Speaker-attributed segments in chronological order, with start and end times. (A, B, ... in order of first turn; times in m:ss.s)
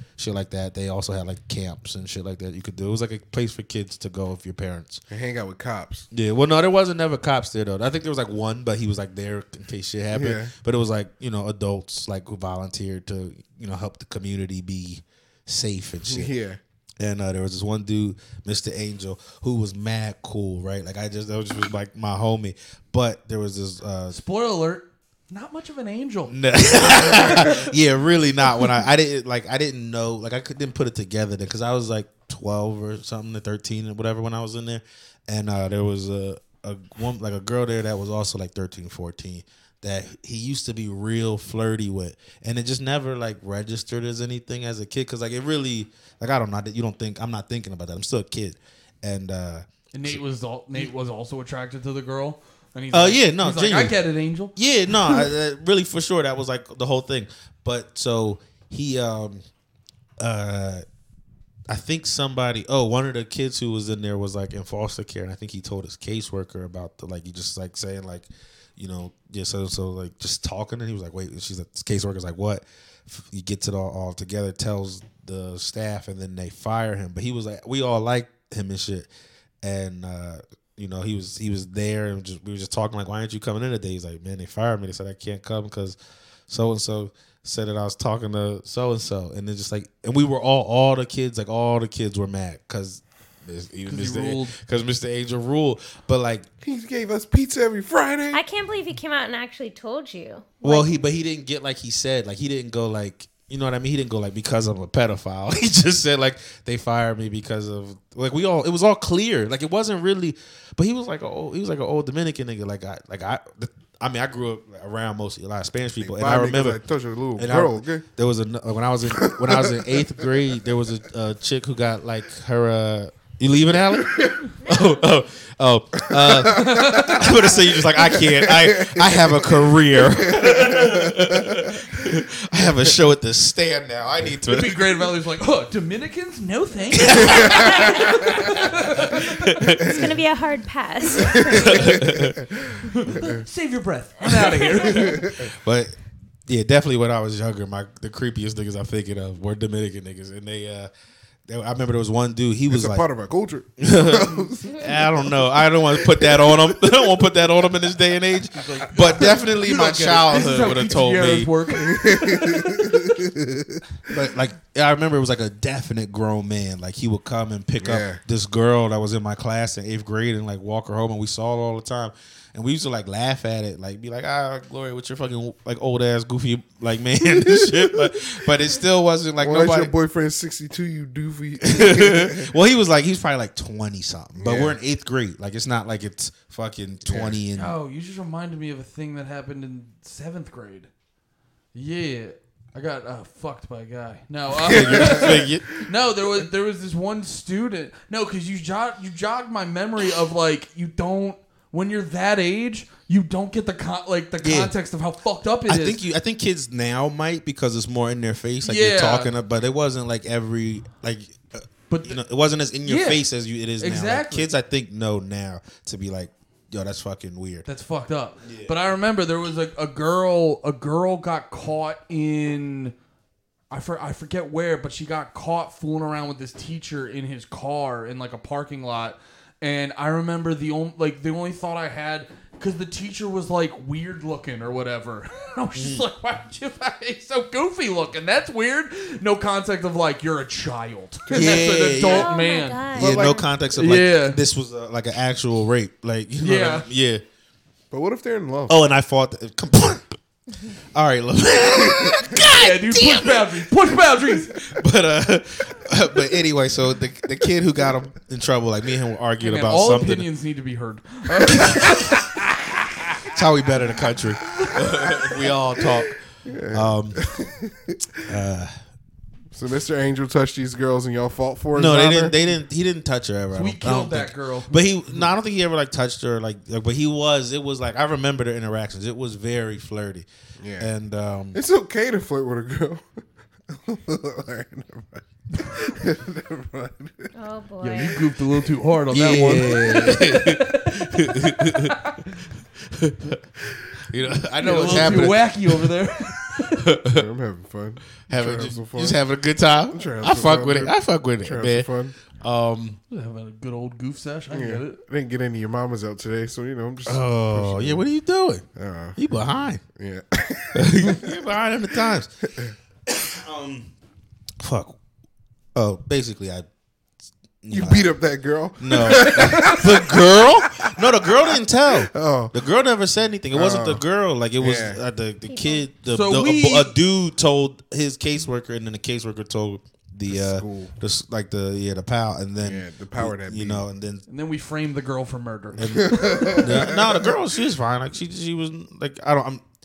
0:00.2-0:05.0 A
0:05.1-0:06.1 B
0:06.1-0:16.3 A
0:10.1-0:10.5 B
0:16.1-0:16.6 B
0:17.0-0:24.2 A
0:24.1-0:27.7 C
0:26.3-0:50.2 A
0:49.9-0:55.3 C
0:52.9-0:54.0 A
0:54.6-0:59.4 A
1:00.2-1:00.8 A
1:01.7-1:19.1 A
1:19.6-1:26.0 A
1:26.5-1:36.4 A
1:33.9-1:34.6 C
1:36.6-1:38.4 B
1:38.3-1:41.0 D
1:40.6-1:56.8 A
1:56.0-1:58.0 B
1:57.4-2:14.9 A
1:59.1-2:00.3 B
2:03.8-2:04.4 B
2:06.1-2:11.8 B
2:06.4-2:07.5 C
2:14.4-2:19.6 C
2:16.9-2:17.9 A
2:17.1-2:18.4 B
2:17.5-2:18.2 D
2:19.2-2:20.1 A
2:19.7-2:22.0 D
2:21.2-2:23.4 B
2:21.5-2:22.4 A
2:22.8-2:25.4 C
2:24.8-2:25.5 B
2:25.4-2:25.9 A
2:26.5-2:30.9 A
2:31.5-2:33.0 A
2:32.7-2:36.8 B
2:33.8-2:41.5 A
2:38.6-2:43.1 C
2:41.7-2:43.8 B
2:44.1-2:59.9 A
2:47.8-2:48.2 B
2:57.4-2:58.0 B
2:59.4-3:02.5 B
3:01.6-3:07.8 A
3:04.4-3:04.8 B
3:07.1-3:07.4 B
3:07.6-3:10.9 C
3:11.7-3:26.0 C
3:14.6-3:15.6 B
3:14.6-3:15.8 A
3:24.4-3:24.7 A
3:25.7-3:37.6 A
3:28.6-3:29.3 C
3:31.9-3:32.2 C
3:32.8-3:33.2 C
3:33.8-3:34.5 C
3:37.7-3:42.9 C
3:38.5-3:38.7 A
3:43.7-4:03.1 C
3:55.8-3:56.1 A
4:01.3-4:01.7 B
4:01.3-4:02.3 A
4:02.0-4:03.5 D
4:03.0-4:07.2 A
4:03.8-4:04.4 C
4:06.4-4:06.9 C
4:07.9-4:08.8 B
4:08.7-4:10.2 A
4:10.9-4:13.7 A
4:12.4-4:14.6 C
4:14.5-4:20.3 A
4:19.4-4:23.0 C
4:21.5-4:22.2 A
4:23.3-4:26.2 A
4:24.6-4:25.5 C
4:26.4-4:28.2 B
4:26.7-4:27.2 A
4:28.3-4:28.7 A
4:29.5-4:32.4 B
4:31.7-4:40.3 A
4:33.5-4:34.8 C
4:40.6-4:40.9 B
4:40.8-4:41.6 A
4:41.5-4:43.1 B
4:43.7-4:47.3 B
4:47.3-4:48.3 D
4:47.8-4:52.3 C
4:48.2-4:48.7 B
4:49.1-4:52.0 A
4:52.8-4:53.4 A
4:54.1-4:55.9 A
4:54.6-4:56.9 C
4:54.8-4:55.2 B
4:56.5-4:57.2 A
4:57.1-4:59.2 B
4:58.3-5:03.0 A
4:59.9-5:02.2 B
5:03.1-5:05.0 C
5:04.5-5:08.0 B
5:07.1-5:08.6 A
5:08.8-5:09.2 B
5:09.2-5:09.8 A
5:10.0-5:11.3 B
5:10.7-5:12.3 A
5:13.1-5:13.9 A
5:14.6-5:15.0 A
5:15.8-5:16.6 A
5:17.6-5:18.1 A
5:17.7-5:20.9 B
5:18.8-5:34.2 A
5:19.3-5:19.7 C
5:21.5-5:22.5 B
5:23.5-5:24.0 B
5:24.6-5:25.0 B
5:25.5-5:25.9 D
5:26.1-5:27.0 C
5:30.3-5:30.9 B
5:32.6-5:33.8 B
5:34.3-5:36.7 C
5:35.8-5:37.3 B
5:35.8-5:39.6 A